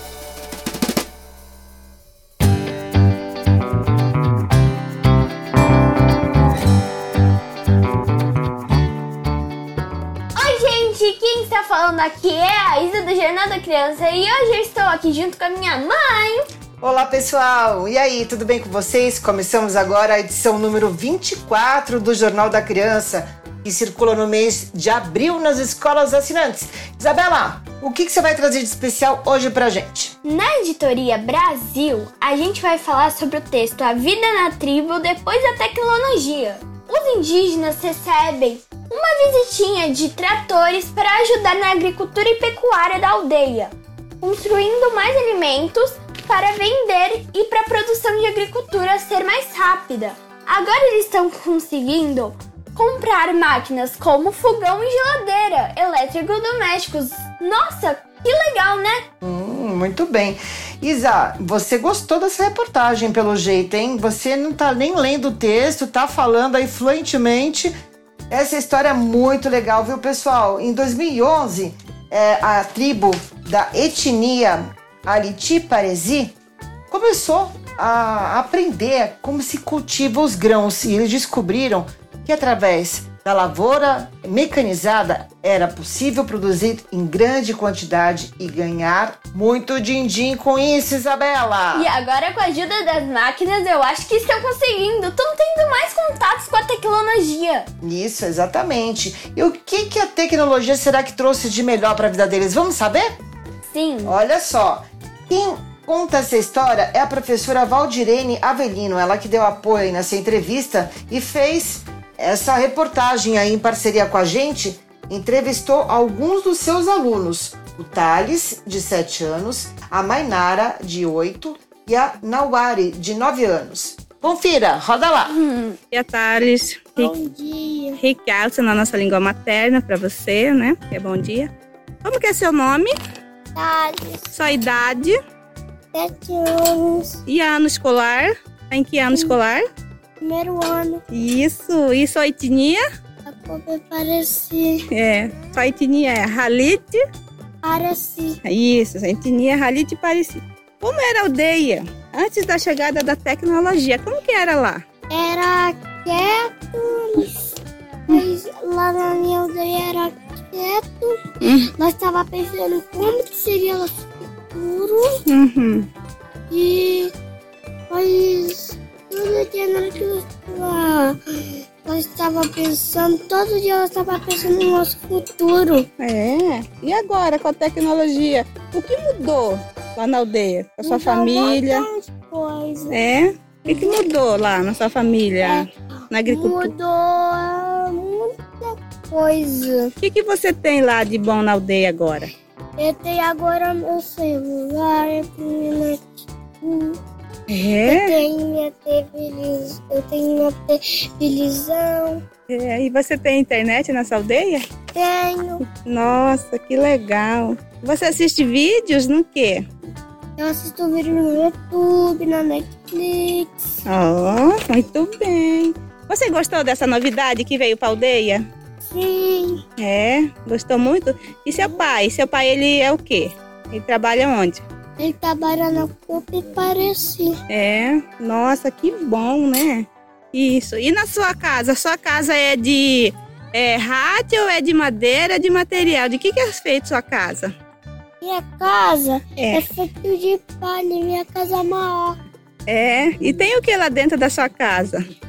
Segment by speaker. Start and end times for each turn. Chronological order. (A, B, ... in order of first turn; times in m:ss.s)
0:10.3-0:16.4 A
0:16.8-0:30.1 B
0:30.2-0:59.0 A
0:59.2-1:07.7 B
1:08.3-1:16.3 B
1:16.9-1:31.9 B
1:31.7-1:37.7 A
1:37.8-1:43.1 B
1:43.7-1:44.2 A
1:44.0-2:05.4 B
2:05.3-2:05.8 A
2:05.9-2:07.1 C
2:07.0-2:08.0 D
2:08.0-2:11.5 C
2:12.0-2:12.9 C
2:13.5-2:14.3 D
2:14.3-2:15.2 C
2:15.9-2:17.2 D
2:17.3-2:19.6 C
2:20.2-2:21.0 D
2:21.1-2:22.8 C
2:23.3-2:24.8 D
2:24.9-2:27.0 C
2:27.6-2:28.4 D
2:28.4-2:34.8 C
2:35.1-2:37.3 D
2:38.1-2:43.9 D
2:41.4-2:41.7 C
2:44.5-2:45.2 D
2:45.3-2:45.9 C
2:46.5-2:47.1 D
2:47.9-2:51.2 D
2:51.8-2:55.9 D
2:56.0-3:01.9 C
3:00.8-3:03.1 D
3:02.9-3:06.7 C
3:03.7-3:04.0 D
3:05.4-3:05.7 D
3:06.2-3:09.9 D
3:10.0-3:12.3 C
3:12.8-3:16.0 D
3:16.6-3:17.0 D
3:17.5-3:18.2 C
3:17.8-3:22.2 D
3:22.5-3:24.6 C
3:24.9-3:25.6 D
3:25.8-3:29.6 C
3:30.4-3:33.5 D
3:33.8-3:38.4 C
3:38.9-3:39.6 D
3:39.8-3:44.6 C
3:45.0-3:47.3 D
3:47.5-3:57.5 C
3:58.2-4:02.2 D
3:59.4-3:59.6 C
4:02.7-4:05.0 C